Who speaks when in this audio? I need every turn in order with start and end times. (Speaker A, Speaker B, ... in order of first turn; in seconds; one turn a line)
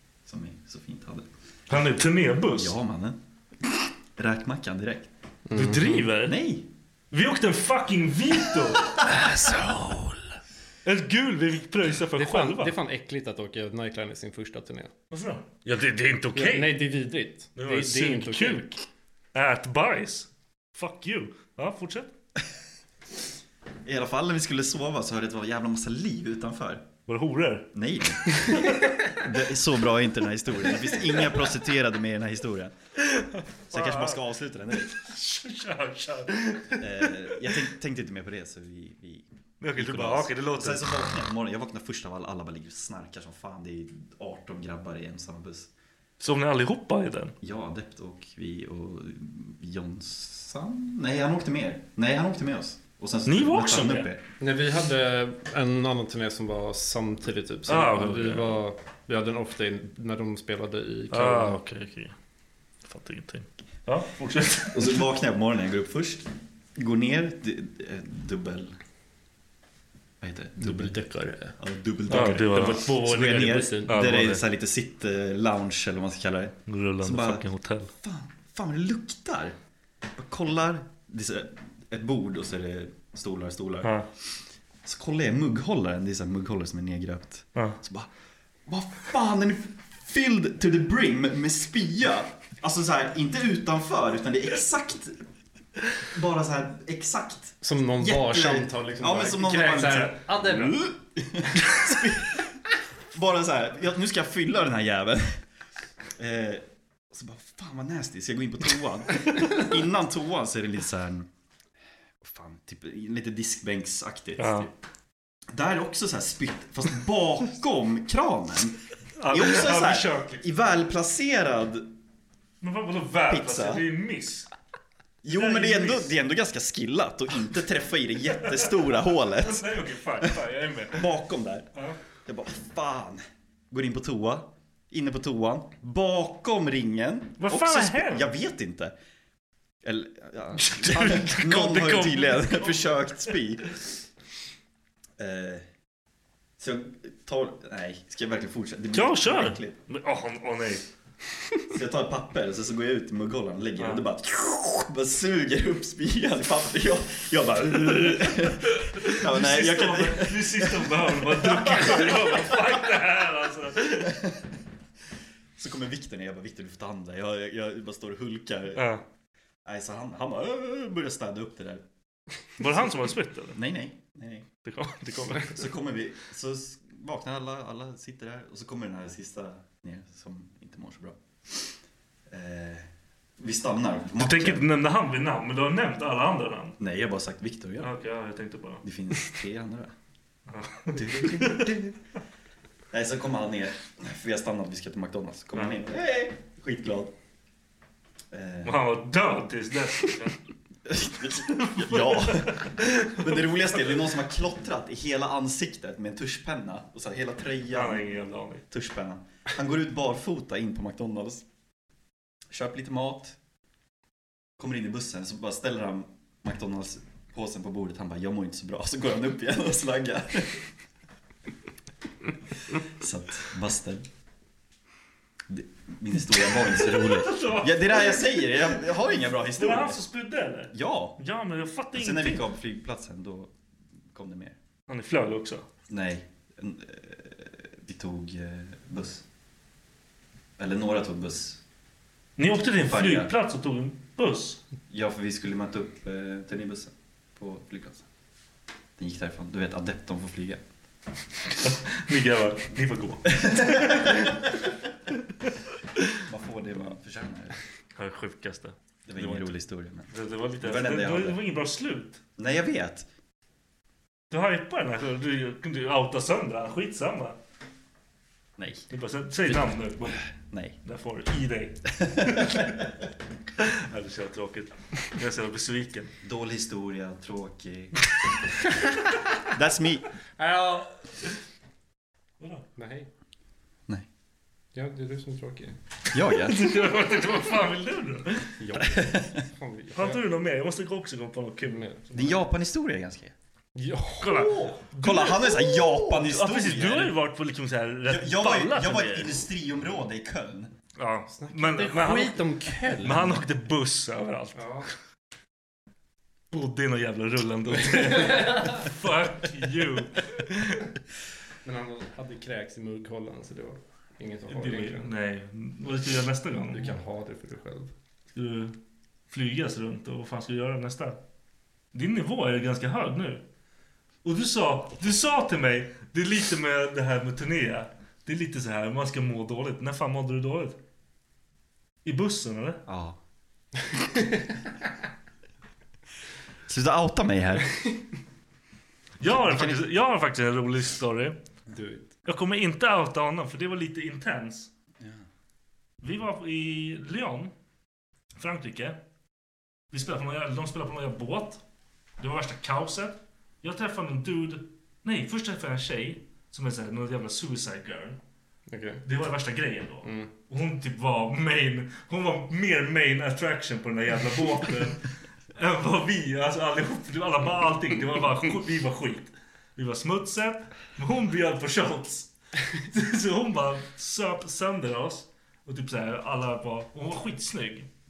Speaker A: 0.2-1.8
Speaker B: 1.7-2.8
Speaker A: 2.5-5.1
Speaker C: 5.5-6.1
Speaker B: 5.5-6.4
Speaker A: 6.2-6.7
Speaker B: 7.1-10.1
Speaker B: 10.8-12.7
Speaker C: 12.2-14.9
Speaker B: 15.1-16.8
Speaker C: 16.3-18.7
Speaker B: 17.6-18.8
Speaker B: 19.3-22.1
Speaker A: 23.9-26.9
Speaker B: 27.1-27.7
Speaker A: 27.7-32.7
Speaker B: 33.0-34.2
Speaker A: 33.7-34.9
Speaker B: 34.8-37.5
Speaker A: 36.8-45.7
Speaker B: 39.6-41.2
Speaker B: 46.2-47.4
Speaker A: 47.4-54.2
Speaker B: 53.3-54.1
Speaker C: 54.4-61.6
Speaker B: 57.7-58.6
Speaker B: 61.1-62.1
Speaker B: 62.9-65.1
Speaker A: 64.7-66.2
Speaker A: 66.8-68.8
Speaker A: 70.2-71.0
Speaker C: 70.6-71.5
Speaker A: 71.6-77.4
Speaker C: 72.1-73.9
Speaker B: 72.1-74.4
Speaker B: 76.7-77.9
Speaker A: 78.0-79.5
Speaker A: 80.2-84.0
Speaker B: 83.8-84.1
Speaker A: 84.8-88.1
Speaker A: 88.7-95.2
Speaker A: 96.0-102.5
Speaker C: 97.6-100.8
Speaker A: 103.1-105.4
Speaker A: 106.2-111.3
Speaker A: 112.2-114.7
Speaker B: 114.4-114.7
Speaker A: 115.5-121.9
Speaker B: 119.2-120.4
Speaker B: 122.6-124.5
Speaker A: 123.3-123.9
Speaker A: 125.2-131.7
Speaker B: 125.3-126.1
Speaker B: 128.5-131.1
Speaker A: 132.2-138.9
Speaker B: 137.4-138.3
Speaker A: 139.8-143.8
Speaker B: 140.6-143.3
Speaker A: 145.2-145.7
Speaker A: 146.6-149.8
Speaker B: 148.9-150.8
Speaker A: 151.7-162.8
Speaker B: 153.8-154.1
Speaker B: 157.6-164.3
Speaker A: 164.1-164.4
Speaker A: 165.6-169.0
Speaker B: 168.7-169.0
Speaker A: 169.7-171.8
Speaker B: 172.6-173.6
Speaker A: 173.5-174.5
Speaker B: 174.7-175.7
Speaker A: 175.4-181.7
Speaker A: 182.3-184.7
Speaker B: 184.2-186.8
Speaker A: 186.8-187.9
Speaker B: 187.8-189.4
Speaker A: 188.8-189.9
Speaker B: 190.5-191.8
Speaker A: 190.9-192.0
Speaker A: 192.9-197.1
Speaker A: 198.3-198.8
Speaker B: 198.7-200.4
Speaker A: 200.9-208.2
Speaker B: 201.4-203.8
Speaker B: 207.7-208.7
Speaker A: 208.7-211.4
Speaker A: 212.5-213.4
Speaker A: 214.6-220.7
Speaker A: 222.7-224.1
Speaker A: 225.5-230.0
Speaker B: 226.8-232.5
Speaker A: 230.7-231.2
Speaker A: 231.9-233.5
Speaker A: 234.1-234.6
Speaker B: 234.9-235.7
Speaker A: 235.9-239.2
Speaker A: 240.6-241.6
Speaker B: 242.4-244.6
Speaker A: 242.8-243.3
Speaker A: 244.9-248.1
Speaker A: 249.0-250.6
Speaker B: 251.6-254.5
Speaker A: 253.4-254.1
Speaker B: 255.4-256.1
Speaker A: 256.2-257.6
Speaker B: 258.0-259.5
Speaker A: 259.1-261.4
Speaker B: 260.1-262.2
Speaker A: 262.4-263.1
Speaker B: 264.3-267.4
Speaker A: 268.6-268.9
Speaker B: 268.9-270.2
Speaker A: 270.4-270.8
Speaker B: 270.9-272.9
Speaker A: 272.0-272.7
Speaker B: 273.6-276.1
Speaker A: 276.2-278.0
Speaker A: 279.5-280.1
Speaker C: 280.4-280.9
Speaker B: 282.4-282.7
Speaker C: 282.8-283.1
Speaker C: 284.7-285.8
Speaker A: 286.1-286.7
Speaker B: 286.3-288.5
Speaker C: 288.6-290.2
Speaker A: 288.8-289.4
Speaker B: 290.0-292.4
Speaker C: 291.7-292.0
Speaker A: 292.1-293.3
Speaker C: 293.8-294.7
Speaker B: 294.2-299.5
Speaker A: 295.0-297.2
Speaker A: 298.1-300.7
Speaker B: 301.0-304.9
Speaker C: 301.3-303.4
Speaker C: 304.6-304.9
Speaker B: 306.5-310.9
Speaker C: 311.6-315.1
Speaker B: 314.5-317.0
Speaker C: 316.7-317.9
Speaker B: 318.3-318.8
Speaker B: 319.3-321.2
Speaker B: 321.9-323.4
Speaker B: 324.2-330.8
Speaker B: 332.1-332.8
Speaker A: 332.9-333.2
Speaker A: 336.7-337.7
Speaker B: 339.2-341.4
Speaker A: 339.3-339.9
Speaker C: 341.7-342.1
Speaker B: 342.2-344.7
Speaker B: 346.0-347.5
Speaker B: 348.4-349.0
Speaker B: 349.9-351.6
Speaker B: 352.2-358.2
Speaker C: 358.7-359.0
Speaker B: 359.1-377.9
Speaker C: 360.0-360.3